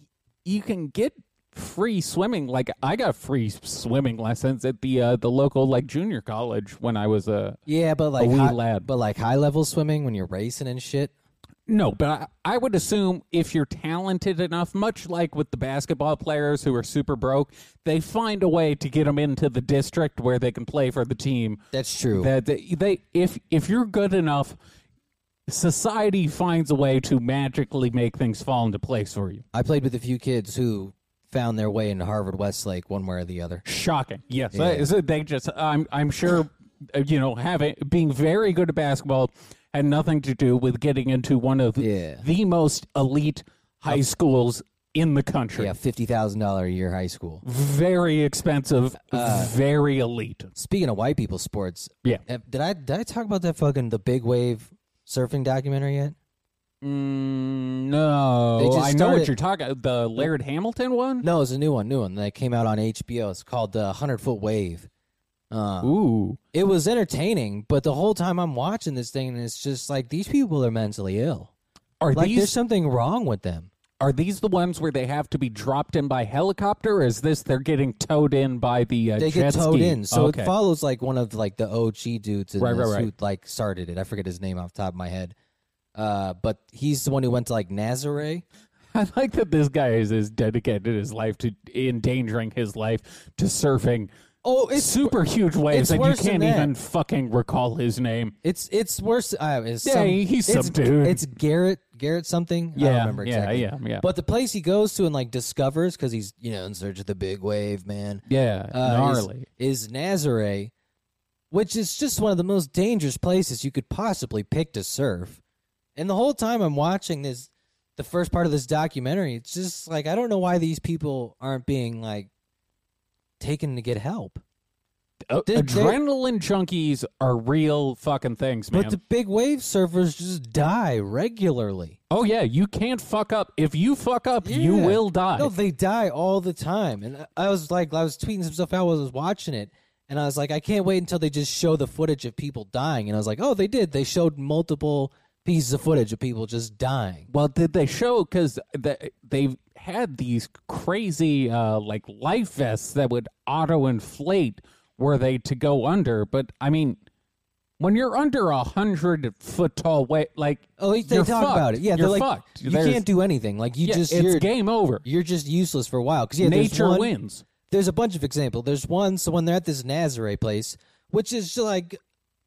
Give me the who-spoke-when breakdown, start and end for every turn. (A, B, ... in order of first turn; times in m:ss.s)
0:00.4-0:07.6 A
0:07.7-0:11.1 B
0:08.2-0:08.9 A
0:11.7-0:21.6 A
0:21.7-0:22.3 B
0:22.1-0:24.6 A
0:25.5-0:29.4 A
0:29.5-0:33.6 B
0:33.6-0:45.7 A
0:34.5-0:34.9 B
0:41.8-0:42.2 B
0:45.6-0:47.4 B
0:47.4-0:50.5 A
0:49.1-0:49.5 B
0:50.5-0:56.2 B
0:56.8-1:01.2 A
0:58.6-0:59.3 B
1:01.2-1:04.9 B
1:05.5-1:05.9 B
1:05.8-1:06.4 A
1:06.5-1:11.5 B
1:12.0-1:12.5 A
1:12.1-1:13.7 B
1:14.0-1:20.5 A
1:19.2-1:25.3 B
1:22.6-1:23.1 A
1:25.9-1:28.4 B
1:28.9-1:34.1 A
1:34.4-1:35.2 B
1:34.8-1:38.3 A
1:35.7-1:36.7 B
1:38.4-1:50.7 B
1:39.8-1:41.2 A
1:42.8-1:44.0 A
1:48.3-1:49.4 A
1:51.5-1:55.4 B
1:56.0-2:02.3 B
2:03.4-2:04.4 B
2:05.3-2:09.0 A
2:05.4-2:06.0 B
2:08.7-2:12.0 B
2:12.1-2:15.5 A
2:14.4-2:27.3 B
2:27.3-2:37.0 A
2:37.8-2:43.0 A
2:40.8-2:44.5 B
2:43.8-2:45.0 A
2:45.0-2:47.1 B
2:46.4-2:47.4 A
2:47.7-2:52.0 B